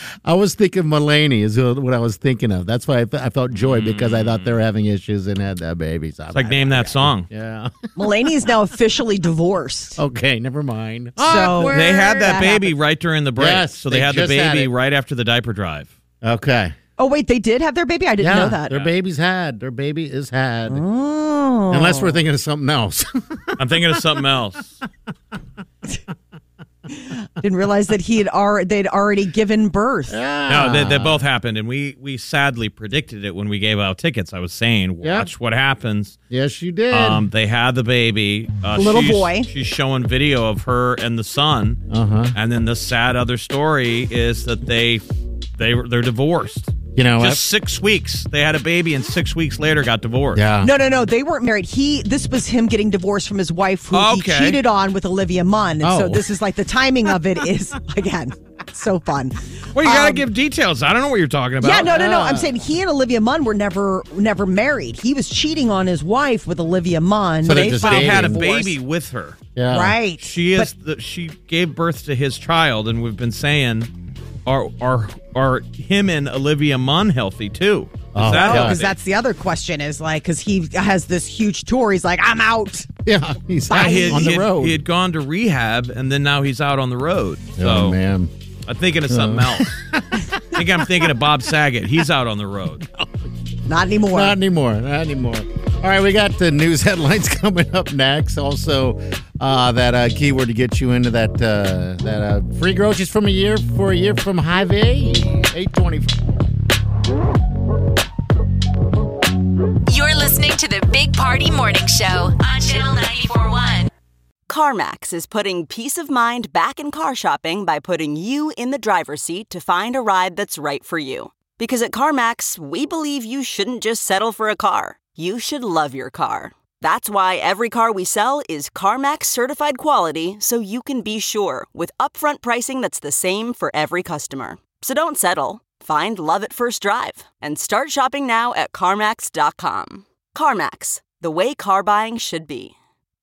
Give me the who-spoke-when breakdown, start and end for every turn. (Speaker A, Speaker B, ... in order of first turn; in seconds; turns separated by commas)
Speaker A: 0.2-7.8, Speaker B: 3.5-4.6, Speaker B: 6.3-7.3, Speaker C: 8.0-10.0, Speaker A: 10.0-12.4, Speaker C: 11.2-12.7, Speaker B: 11.7-15.9, Speaker A: 13.4-14.7, Speaker A: 16.2-16.8, Speaker C: 17.0-18.8, Speaker A: 18.2-20.8, Speaker C: 20.7-22.2, Speaker A: 21.7-24.0, Speaker B: 23.6-24.8, Speaker C: 27.0-30.2, Speaker A: 30.1-31.2, Speaker B: 30.5-36.2, Speaker A: 35.0-35.3, Speaker A: 36.3-37.3, Speaker B: 36.9-41.8, Speaker C: 38.8-39.5, Speaker A: 41.9-42.4, Speaker B: 42.3-45.0, Speaker B: 45.6-50.4, Speaker A: 47.0-47.4, Speaker A: 50.3-50.7, Speaker C: 50.6-60.2, Speaker B: 53.9-54.6, Speaker A: 55.8-56.3, Speaker B: 59.8-62.0, Speaker C: 61.6-68.7, Speaker A: 61.8-62.5, Speaker A: 67.4-68.5, Speaker B: 67.6-69.4, Speaker A: 69.6-70.0, Speaker C: 69.7-70.7, Speaker B: 70.2-73.9, Speaker B: 74.5-78.9, Speaker A: 78.1-78.9, Speaker C: 78.2-82.9, Speaker A: 83.0-84.8, Speaker C: 83.7-84.3, Speaker B: 83.7-88.0, Speaker A: 87.6-88.3, Speaker B: 88.7-89.8, Speaker A: 89.1-91.0, Speaker B: 90.5-92.9, Speaker C: 93.7-94.4, Speaker A: 94.1-106.2, Speaker D: 109.9-113.9, Speaker E: 114.5-142.8